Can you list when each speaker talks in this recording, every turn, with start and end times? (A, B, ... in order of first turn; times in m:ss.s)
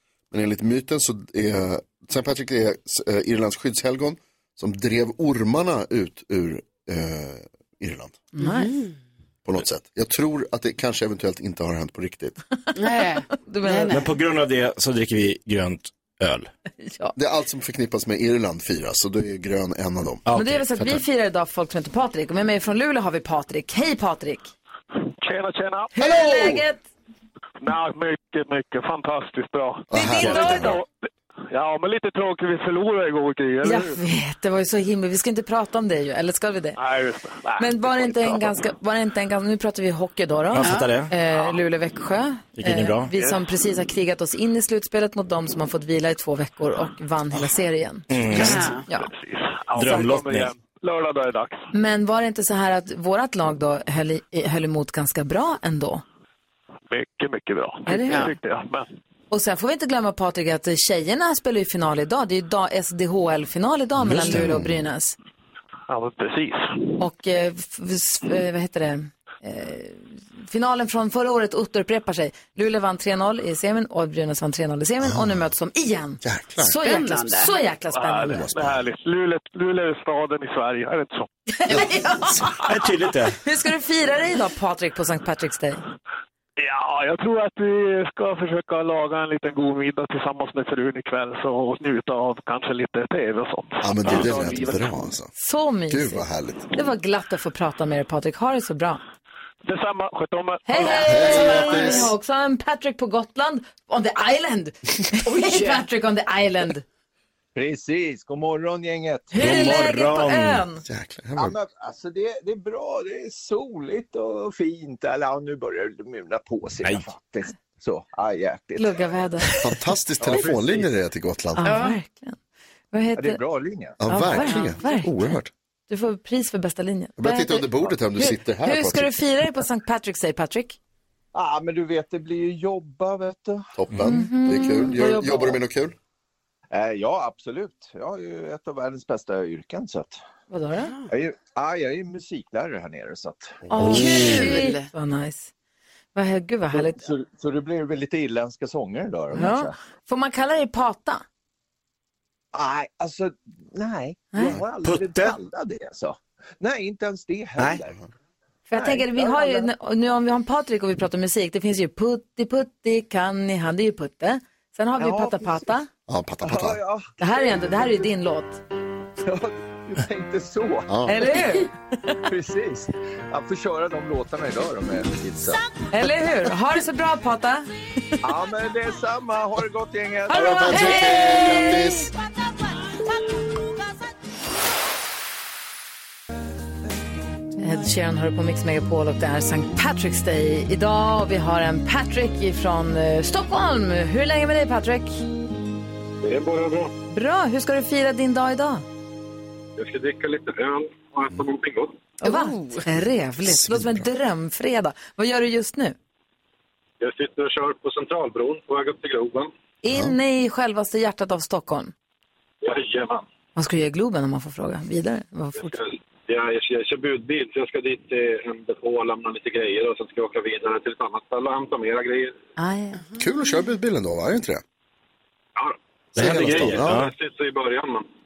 0:00.3-0:08.2 A
0:08.4-0:08.8 B
0:08.4-0:08.9 C
0:09.4-0:12.4 A
0:12.8-0:14.1 C
0:13.4-0:14.0 B
0:13.9-0:16.5 D
0:16.8-0:17.1 B
0:17.2-0:20.2 A
0:20.3-0:21.0 D
0:20.3-0:24.5 B
0:25.2-0:26.6 E
0:26.0-0:26.8 B
0:27.6-0:30.9 E
0:29.9-0:30.8 A
0:29.9-0:30.8 B
0:30.2-0:30.6 D
0:31.5-0:34.0 E
0:33.6-0:36.8 B
0:36.8-0:38.6 E
0:37.6-0:49.1 B
0:40.5-0:41.1 D
0:40.6-0:40.9 C
0:42.6-0:43.1 D
0:48.1-0:48.8 D
0:48.3-0:48.9 C
0:48.5-0:51.6 E
0:49.8-0:50.5 D
0:51.7-0:56.0 B
0:56.9-0:58.9 E
0:57.9-0:58.3 B
0:58.1-0:58.3 C
0:59.3-1:05.2 B
1:04.0-1:04.7 D
1:05.9-1:06.7 E
1:07.0-1:18.5 B
1:15.0-1:15.5 A
1:16.2-1:16.7 A
1:16.8-1:17.6 C
1:17.9-1:21.3 E
1:18.2-1:18.8 A
1:21.6-1:22.7 B
1:21.8-1:22.5 A
1:22.6-1:23.4 D
1:23.4-1:25.8 B
1:26.6-1:34.4 E
1:33.8-1:35.3 A
1:35.4-1:39.0 B
1:35.9-1:36.7 A
1:39.6-1:41.6 E
1:40.7-1:46.8 B
1:40.9-1:42.1 A
1:41.3-1:41.9 C
1:45.2-1:45.9 C
1:47.6-1:49.6 F
1:49.3-1:50.8 B
1:49.4-1:50.7 D
1:50.9-1:51.6 A
1:51.4-1:59.5 F
1:58.8-1:59.5 B
1:59.6-2:01.8 A
2:00.2-2:00.9 F
2:01.6-2:02.4 B
2:01.6-2:02.0 C
2:02.9-2:03.4 B
2:03.2-2:04.5 F
2:04.0-2:05.5 A
2:04.1-2:05.3 B
2:05.9-2:10.8 B
2:07.2-2:09.2 A
2:11.3-2:13.7 F
2:13.8-2:16.0 A
2:14.0-2:15.6 B
2:16.7-2:20.2 F
2:20.5-2:21.0 B
2:21.1-2:23.6 F
2:23.7-2:24.2 A
2:23.7-2:25.5 B
2:23.8-2:24.6 D
2:23.8-2:24.9 C
2:26.2-2:27.0 B
2:26.7-2:29.8 F
2:29.3-2:31.2 B
2:32.5-2:38.0 F
2:34.3-2:34.6 B
2:34.8-2:35.4 D
2:38.7-2:45.9 B
2:38.7-2:39.7 F
2:45.0-2:45.7 F
2:46.1-2:46.8 A
2:46.4-2:48.0 F
2:47.2-2:48.6 B
2:49.2-2:50.9 F
2:50.9-2:51.2 A
2:51.1-2:52.2 B
2:52.3-2:55.6 F
2:55.9-2:58.2 B
2:58.2-3:00.9 F
3:00.3-3:02.1 B
3:00.3-3:02.1 A
3:07.6-3:15.2 B
3:16.2-3:16.9 G
3:17.1-3:18.8 B
3:19.8-3:22.0 G
3:22.2-3:26.0 B
3:22.3-3:22.7 C
3:23.4-3:24.1 A
3:27.0-3:29.5 G
3:29.8-3:31.9 B
3:29.9-3:30.2 A
3:32.6-3:33.3 G
3:33.6-3:35.8 B
3:35.6-3:42.4 G
3:42.6-3:43.0 B
3:43.2-3:44.6 A
3:45.6-3:48.1 G
3:46.2-3:47.1 D
3:46.2-3:47.0 A